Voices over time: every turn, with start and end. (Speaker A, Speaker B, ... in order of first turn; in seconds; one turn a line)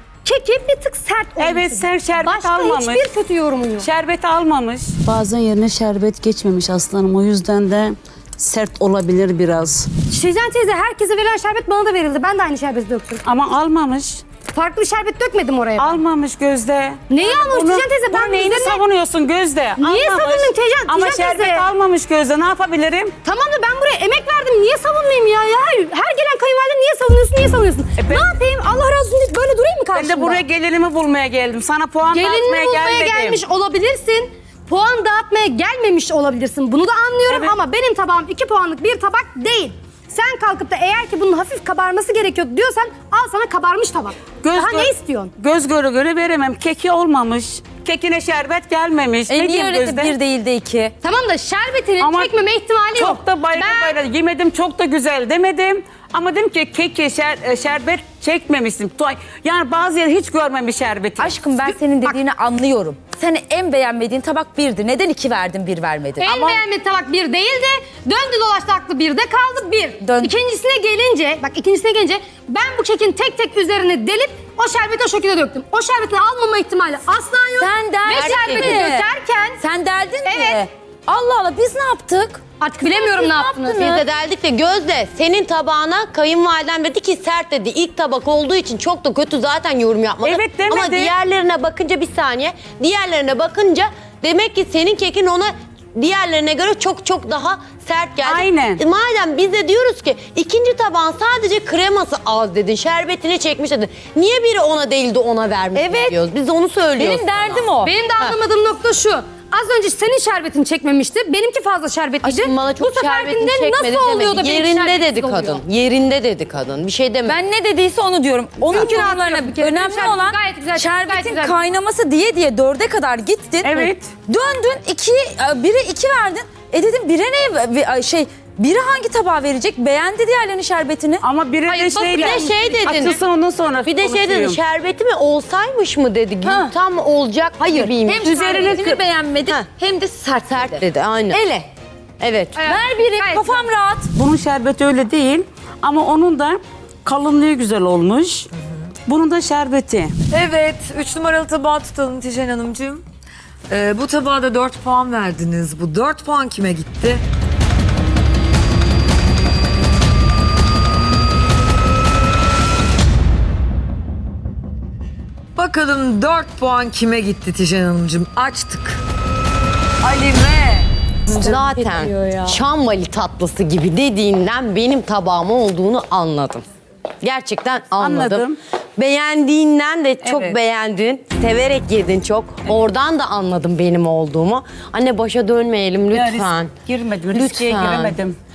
Speaker A: 0.2-3.9
Speaker B: 1.4-3.0
Speaker B: 3.8-9.9
Speaker A: 10.1-13.2
Speaker B: 13.2-14.2
Speaker A: 14.5-16.0
Speaker B: 15.8-23.2
Speaker A: 17.1-18.8
Speaker A: 19.8-21.7
Speaker A: 23.2-30.4
Speaker B: 28.0-28.3
Speaker B: 29.9-33.4
Speaker A: 32.1-45.3
Speaker B: 37.3-37.6
Speaker B: 44.4-50.1
Speaker C: 49.3-51.0
Speaker A: 51.0-54.0
Speaker B: 52.0-52.3
Speaker B: 52.9-61.4
Speaker C: 61.2-66.4
Speaker A: 61.6-62.2
Speaker A: 66.2-79.6
Speaker B: 66.3-66.6
Speaker C: 70.0-70.3
Speaker C: 77.6-79.1
Speaker D: 78.1-78.9
Speaker C: 79.6-82.4
Speaker A: 80.2-80.7
Speaker A: 82.6-84.0
Speaker C: 83.1-83.4
Speaker D: 83.5-108.4
Speaker B: 90.2-91.1
Speaker B: 98.2-98.8
Speaker C: 105.8-106.2
Speaker C: 107.0-107.9
Speaker A: 107.8-115.6
Speaker D: 112.2-117.4
Speaker C: 117.2-131.2
Speaker D: 118.7-119.0
Speaker A: 118.8-121.6
Speaker B: 123.6-124.1
Speaker B: 131.2-134.6
Speaker A: 131.7-133.0
Speaker D: 132.1-133.2
Speaker D: 133.8-139.7
Speaker C: 136.4-136.7
Speaker C: 137.6-141.7
Speaker D: 140.5-141.4
Speaker D: 142.2-142.7
Speaker A: 142.6-143.7
Speaker C: 142.6-144.1
Speaker B: 144.1-148.5
Speaker E: 148.5-148.9
Speaker B: 149.1-150.1
Speaker E: 150.3-153.0
Speaker E: 153.7-157.2
Speaker E: 165.6-169.0
Speaker E: 170.0-171.7
Speaker D: 171.3-176.7
Speaker C: 171.8-172.5
Speaker D: 177.2-186.7
Speaker B: 178.0-178.6
Speaker B: 180.2-180.6
Speaker B: 186.1-188.4
Speaker D: 187.3-188.2